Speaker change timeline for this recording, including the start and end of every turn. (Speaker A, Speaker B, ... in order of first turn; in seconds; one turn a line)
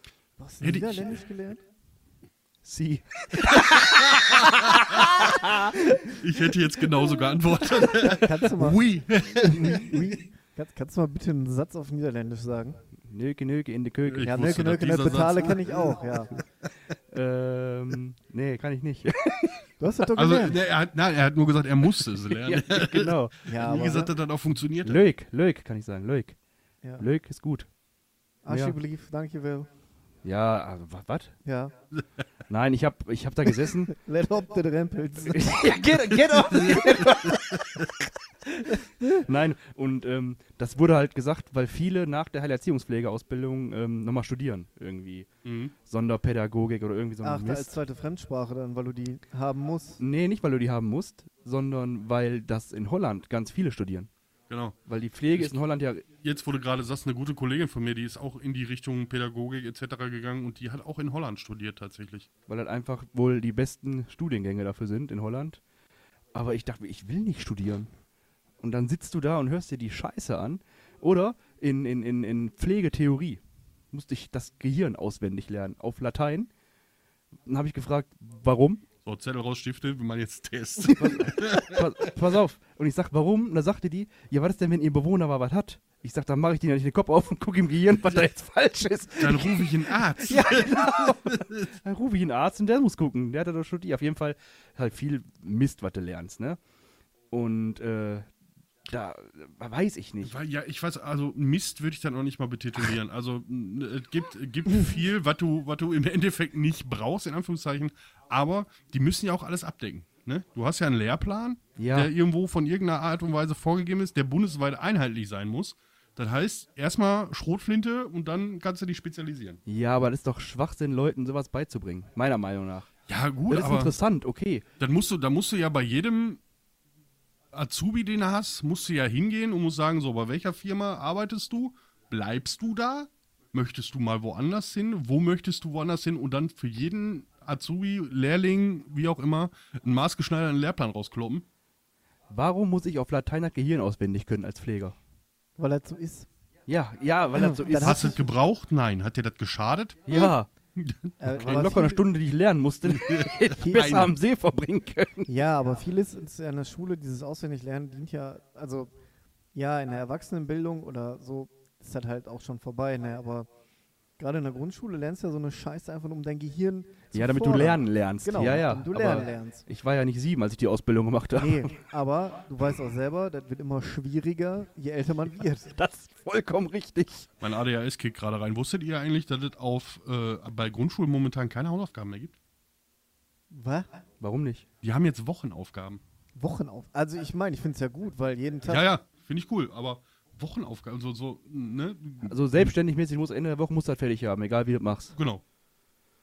Speaker A: 0.4-1.6
Speaker B: 0.6-1.1
Speaker C: 2.6-5.7
Speaker B: 6.1-10.2
Speaker A: 7.9-12.8
Speaker C: 13.0-14.4
Speaker B: 14.0-16.1
Speaker A: 14.2-16.3
Speaker C: 17.1-19.6
Speaker A: 19.8-20.6
Speaker B: 20.1-25.0
Speaker C: 22.3-23.4
Speaker A: 23.5-24.1
Speaker C: 24.8-26.4
Speaker C: 27.0-27.7
Speaker A: 28.4-29.7
Speaker C: 28.5-28.8
Speaker C: 30.2-31.3
Speaker A: 31.4-31.7
Speaker C: 32.5-33.9
Speaker A: 33.9-35.8
Speaker C: 35.2-37.9
Speaker B: 36.7-37.8
Speaker C: 38.5-45.3
Speaker B: 45.5-45.7
Speaker C: 45.9-47.8
Speaker A: 47.2-50.0
Speaker C: 50.0-54.1
Speaker B: 54.5-54.8
Speaker C: 54.9-56.0
Speaker B: 56.1-62.3
Speaker C: 62.5-65.6
Speaker C: 66.3-67.9
Speaker C: 68.6-73.4
Speaker C: 73.9-76.5
Speaker C: 77.5-78.8
Speaker B: 79.0-82.1
Speaker C: 80.9-96.6
Speaker B: 89.2-91.7
Speaker C: 97.3-98.3
Speaker C: 98.9-100.4
Speaker B: 100.2-119.6
Speaker C: 111.8-112.1
Speaker C: 119.7-122.9
Speaker B: 123.1-124.0
Speaker C: 123.5-124.6
Speaker B: 124.8-126.4
Speaker B: 127.5-141.5
Speaker C: 142.3-145.0
Speaker A: 145.6-146.3
Speaker C: 146.7-148.1
Speaker A: 147.3-148.2
Speaker B: 147.8-151.2
Speaker C: 150.1-150.5
Speaker A: 151.2-152.0
Speaker C: 151.3-155.3
Speaker B: 152.9-154.1
Speaker A: 153.6-154.1
Speaker A: 155.3-158.9
Speaker A: 159.5-163.5
Speaker A: 164.2-169.6
Speaker C: 167.1-171.7
Speaker A: 171.4-175.7
Speaker C: 175.7-177.3
Speaker B: 177.4-182.4
Speaker A: 183.5-183.9
Speaker C: 184.2-184.7
Speaker B: 184.8-186.0
Speaker A: 186.4-188.9
Speaker B: 188.7-192.7
Speaker C: 192.2-195.1
Speaker B: 195.1-195.4